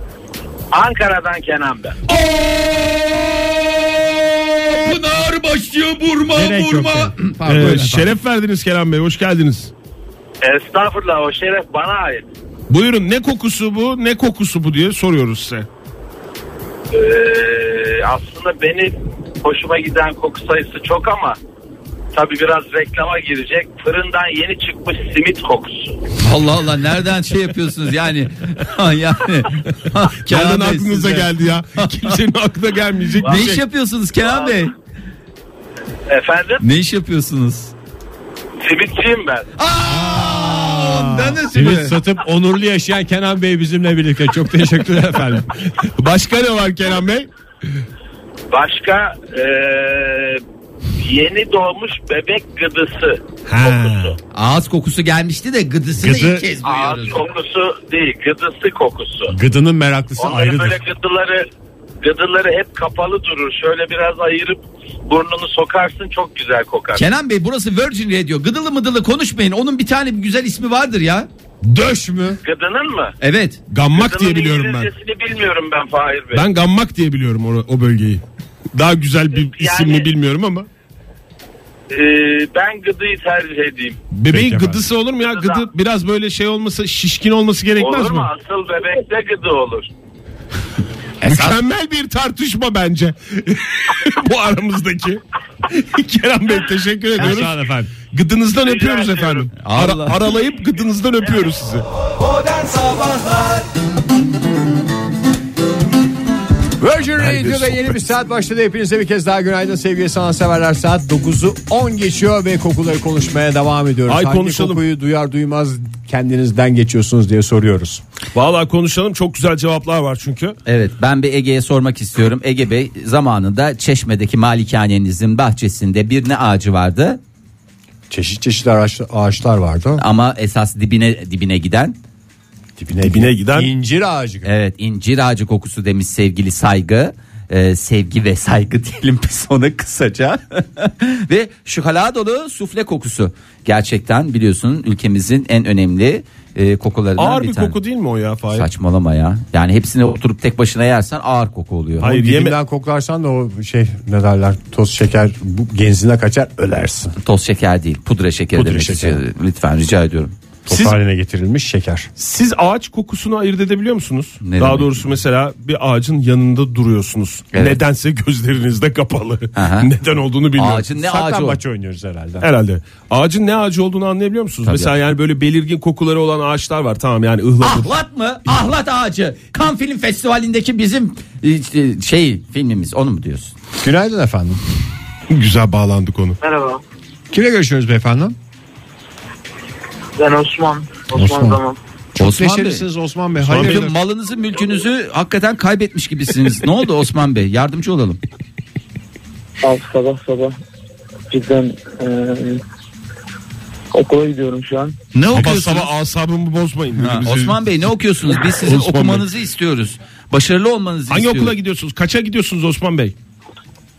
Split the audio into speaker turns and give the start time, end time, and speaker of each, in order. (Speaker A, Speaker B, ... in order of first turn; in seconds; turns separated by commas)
Speaker A: 0.7-2.0, Speaker B: 2.1-8.1, Speaker C: 6.3-7.2, Speaker D: 7.5-9.7, Speaker A: 10.4-12.3, Speaker D: 12.7-15.7, Speaker A: 16.9-21.4, Speaker A: 22.1-26.0, Speaker B: 26.2-32.2, Speaker D: 30.2-33.6, Speaker B: 33.2-34.7, Speaker A: 34.2-34.6, Speaker A: 36.1-36.6, Speaker B: 36.6-37.7, Speaker A: 38.6-39.5, Speaker B: 39.6-42.0, Speaker C: 39.9-45.5, Speaker D: 45.8-47.3, Speaker A: 48.5-50.4, Speaker A: 51.0-54.1, Speaker D: 53.5-54.2, Speaker B: 54.3-57.2, Speaker C: 56.1-56.3, Speaker A: 56.6-59.3, Speaker C: 59.3-60.8, Speaker A: 60.2-61.5, Speaker A: 62.0-67.0, Speaker B: 67.0-71.3, Speaker C: 71.6-72.4, Speaker A: 72.4-73.1, Speaker B: 73.2-73.6, Speaker D: 73.7-74.9, Speaker A: 73.9-76.5, Speaker D: 76.3-78.2, Speaker D: 78.8-80.7, Speaker A: 79.4-80.1, Speaker A: 81.9-84.0, Speaker D: 84.1-88.3, Speaker C: 84.3-84.9, Speaker A: 85.3-85.7, Speaker A: 87.8-89.9, Speaker B: 91.2-91.5, Speaker D: 91.2-101.9, Speaker C: 97.2-97.9, Speaker A: 98.6-99.5, Speaker B: 99.6-100.2, Speaker C: 106.8-118.0, Speaker D: 107.2-108.0, Speaker D: 114.1-114.8, Speaker D: 118.3-120.6, Speaker B: 120.7-127.2, Speaker C: 128.1-130.0, Speaker B: 130.0-132.0, Speaker C: 132.8-134.5, Speaker D: 133.1-133.7, Speaker B: 134.4-147.8, Speaker D: 147.2-148.7, Speaker B: 148.6-152.1, Speaker D: 152.0-152.6, Speaker C: 152.0-157.1, Speaker B: 157.2-160.3, Speaker C: 158.6-159.2, Speaker C: 160.7-162.1, Speaker D: 162.2-170.8, Speaker B: 164.4-164.9, Speaker B: 167.5-167.8, Speaker B: 169.6-169.9, Speaker B: 170.6-171.6, Speaker C: 170.9-172.5, Speaker D: 172.4-177.9, Speaker B: 174.6-174.9, Speaker B: 177.6-183.6, Speaker C: 183.8-184.6, Speaker D: 185.3-186.4, Speaker C: 187.3-188.3, Speaker C: 191.2-191.6, Speaker C: 192.2-193.9, Speaker B: 192.2-192.8, Speaker D: 193.4-193.8, Speaker B: 193.5-198.2, Speaker E: 199.6-200.6, Speaker E: 201.3-202.6, Speaker E: 203.9-205.0, Speaker B: 205.1-205.9, Speaker D: 205.3-209.3, Speaker B: 207.0-211.5, Speaker D: 211.1-213.2